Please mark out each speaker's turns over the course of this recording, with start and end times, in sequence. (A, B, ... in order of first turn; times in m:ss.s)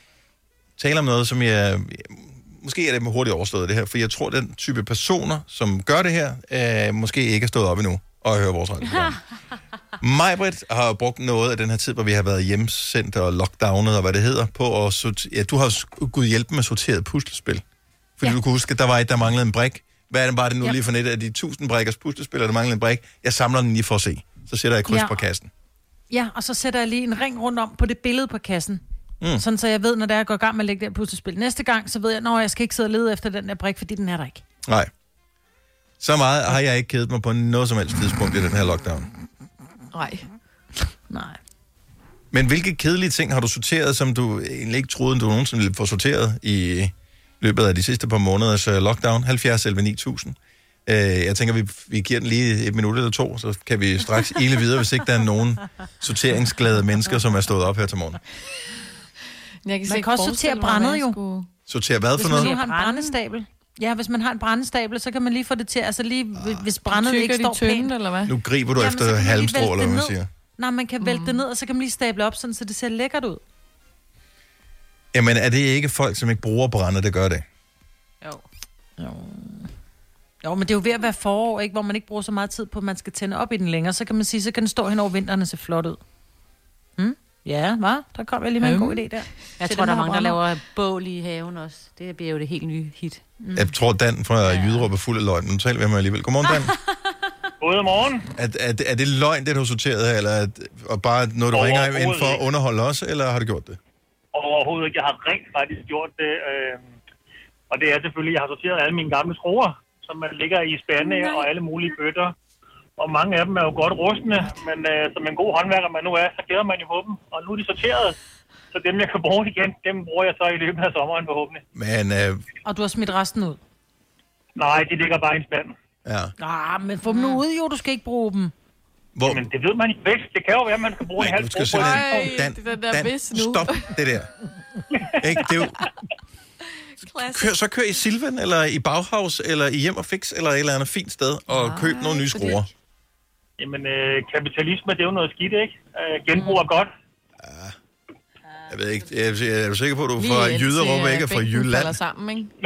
0:00.8-0:09.2 A
0:10.0-0:17.6 A
0:18.2-0:25.5 A
0:24.9-0:25.2 B
0:26.1-0:28.8 B
0:29.4-0:34.4 B
0:34.6-0:34.9 A
0:36.0-0:39.1 A
0:39.9-0:40.2 C
0:41.1-0:41.4 B
0:42.3-0:58.2 A
0:59.6-1:01.5 C
0:59.9-1:01.2 B
1:01.7-1:02.5 A
1:02.2-1:07.9 B
1:02.3-1:03.2 D
1:06.4-1:06.6 A
1:06.9-1:08.3 C
1:08.3-1:10.3 A
1:08.8-1:13.4 B
1:11.0-1:11.4 C
1:15.1-1:17.4 A
1:19.0-1:19.7 B
1:20.4-1:26.0 B
1:27.0-1:30.4 B
1:28.6-1:29.0 C
1:29.6-1:33.4 D
1:33.6-1:36.7 A
1:34.4-1:34.9 D
1:37.6-1:38.3 E
1:38.4-1:43.8 A
1:41.5-1:42.4 E
1:44.3-1:46.9 E
1:47.7-1:52.3 E
1:53.0-1:58.2 E
1:58.7-2:01.6 E
2:01.7-2:02.4 A
2:02.7-2:03.6 B
2:04.6-2:05.7 E
2:06.0-2:06.3 A
2:06.4-2:08.5 B
2:09.2-2:09.4 A
2:09.3-2:12.4 E
2:11.2-2:14.3 A
2:11.7-2:13.9 C
2:15.2-2:15.8 A
2:17.0-2:17.5 C
2:17.3-2:22.7 A
2:21.5-2:22.6 C
2:23.6-2:26.9 E
2:27.4-2:27.7 A
2:28.7-2:32.0 A
2:30.2-2:32.5 C